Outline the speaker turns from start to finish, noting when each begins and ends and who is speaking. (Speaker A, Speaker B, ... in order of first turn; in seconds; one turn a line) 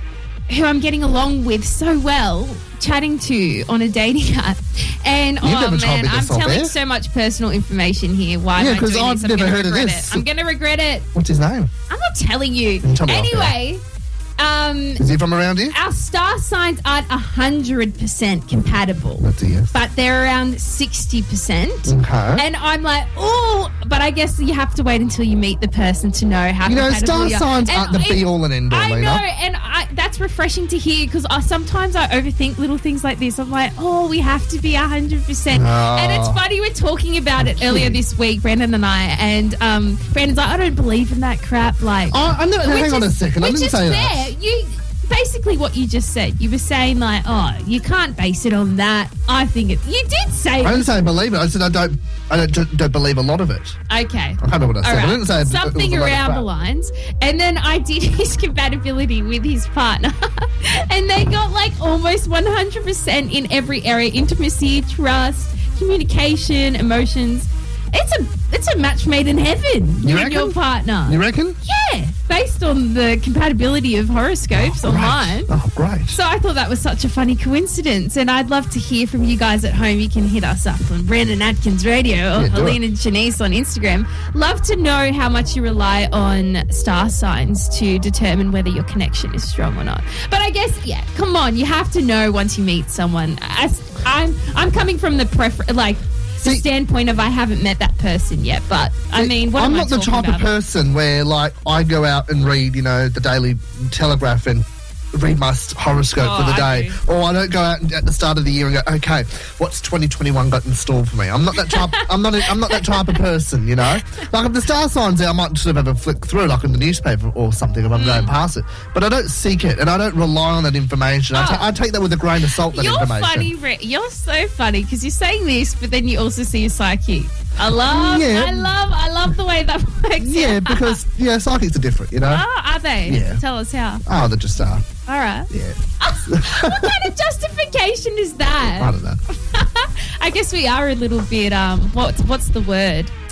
Speaker A: 0.5-11.1
Speaker B: 5.4-6.8
Speaker B: 8.6-10.3
Speaker B: 11.1-11.7
Speaker A: 11.9-13.8
Speaker B: 12.8-13.6
Speaker A: 14.4-15.0
Speaker B: 15.0-15.8
Speaker A: 15.7-50.9
Speaker B: 19.2-19.7
Speaker B: 21.9-22.5
Speaker B: 26.6-29.2
Speaker B: 35.5-36.4
Speaker B: 37.4-38.0
Speaker B: 42.1-44.3
Speaker B: 50.6-53.8
Speaker A: 53.9-75.5
Speaker B: 54.4-56.5
Speaker B: 70.0-71.6
Speaker B: 74.5-76.2
Speaker A: 76.1-100.5
Speaker B: 82.3-82.8
Speaker B: 99.1-123.5
Speaker A: 106.2-107.0
Speaker A: 111.7-112.0
Speaker A: 112.7-113.0
Speaker A: 118.0-118.3
Speaker A: 121.3-121.7
Speaker A: 122.7-131.0
Speaker B: 127.7-128.7
Speaker B: 130.2-132.4
Speaker A: 132.3-134.0
Speaker B: 133.1-133.4
Speaker B: 134.1-134.9
Speaker A: 135.1-135.5
Speaker B: 135.5-136.9
Speaker A: 136.0-143.1
Speaker B: 138.8-139.2